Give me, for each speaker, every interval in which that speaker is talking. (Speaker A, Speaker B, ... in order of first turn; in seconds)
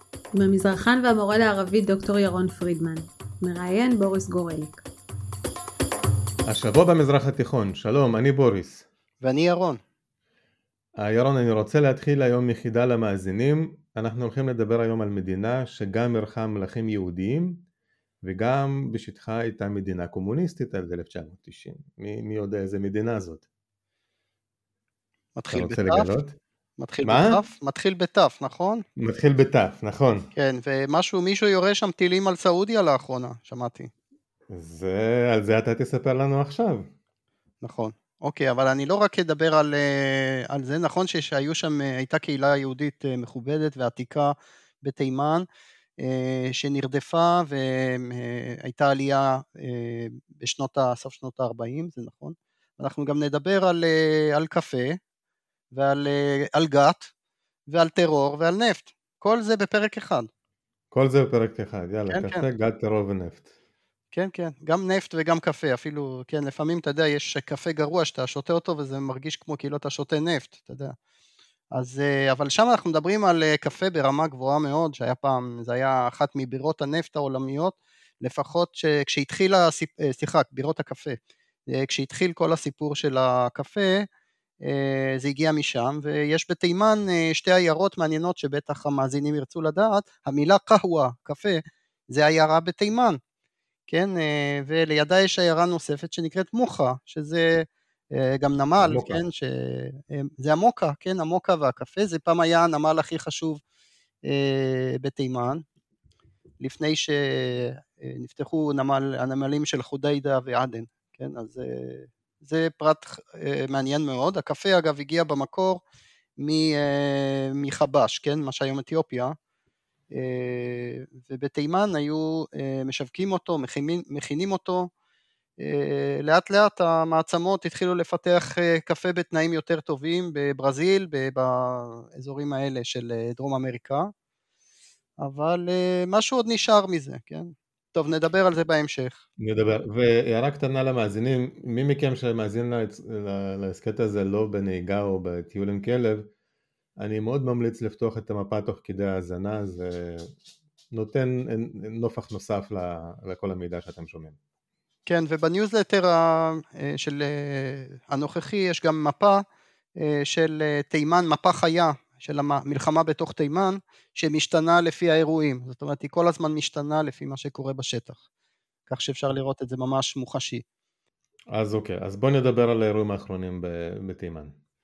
Speaker A: 0.3-4.8
Speaker B: 6.5-8.8, 11.0-17.6, 18.2-23.4, 25.5-26.4, 27.0-27.4, 29.0-30.3, 34.5-36.9, 60.9-63.5, 98.8-99.2, 139.4-146.3, 147.0-150.3, 150.9-154.4, 171.5-174.5
Speaker C: 9.2-9.8, 25.4-26.1, 26.8-28.9, 30.4-33.9, 37.6-45.5, 46.0-55.0, 55.7-57.1, 57.7-60.3, 62.1-62.4, 64.1-70.9, 71.7-81.2, 81.7-84.1, 84.6-93.2, 93.9-103.6, 104.3-105.6, 106.6-115.8, 116.4-119.4, 120.1-124.9, 125.6-134.1, 135.2-139.2, 155.1-159.4, 160.0-168.2, 168.9-170.6